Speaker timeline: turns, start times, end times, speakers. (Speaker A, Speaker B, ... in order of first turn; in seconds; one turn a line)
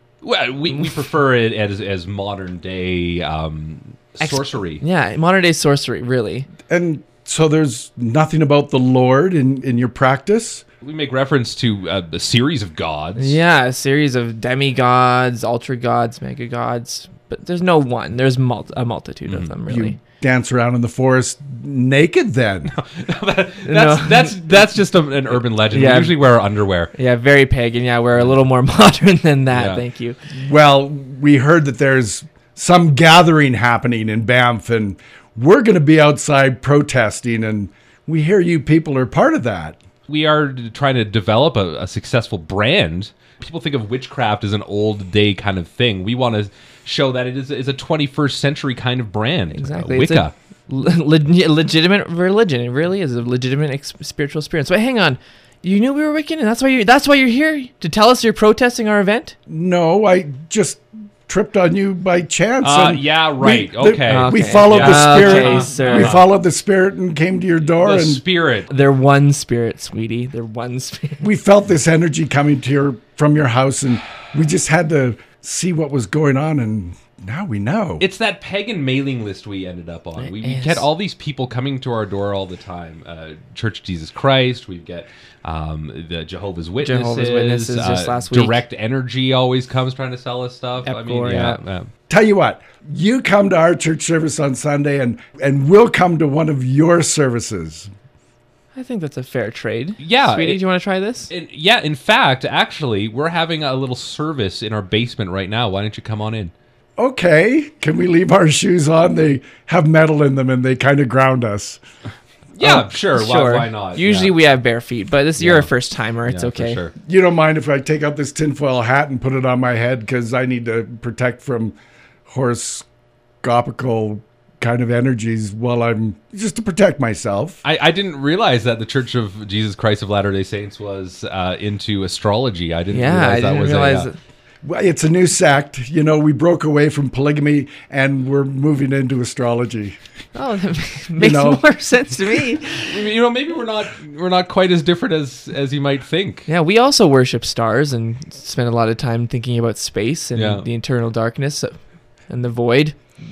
Speaker A: 0.2-4.8
Speaker B: 4.2-6.5
Speaker C: 6.7-10.6
Speaker A: 10.8-13.4
Speaker B: 13.2-20.0
Speaker A: 19.3-19.5
Speaker C: 19.7-22.7
Speaker A: 22.7-26.9
Speaker B: 23.6-24.7
Speaker B: 25.7-26.2
Speaker B: 26.9-30.2
Speaker A: 29.5-29.8
Speaker C: 30.3-39.8
Speaker A: 40.1-50.3
Speaker B: 49.5-59.4
Speaker C: 59.5-68.2
Speaker A: 62.6-66.2
Speaker B: 64.1-66.2
Speaker A: 67.8-68.7
Speaker B: 68.7-71.3
Speaker C: 71.2-78.0
Speaker A: 78.0-91.9
Speaker B: 80.2-80.9
Speaker B: 86.8-88.6
Speaker B: 90.8-91.6
Speaker C: 92.1-97.9
Speaker B: 98.7-101.3
Speaker A: 100.0-100.6
Speaker A: 101.3-106.5
Speaker C: 107.0-111.8
Speaker A: 112.6-114.3
Speaker B: 112.6-116.8
Speaker A: 115.4-115.7
Speaker A: 116.2-116.9
Speaker C: 117.0-121.8
Speaker C: 122.3-122.8
Speaker C: 123.4-127.6
Speaker A: 127.6-134.1
Speaker B: 132.9-134.2
Speaker C: 134.6-140.0
Speaker B: 140.3-143.1
Speaker C: 141.2-141.6
Speaker A: 142.7-146.5
Speaker B: 146.5-151.8
Speaker A: 150.3-150.7
Speaker B: 152.3-153.0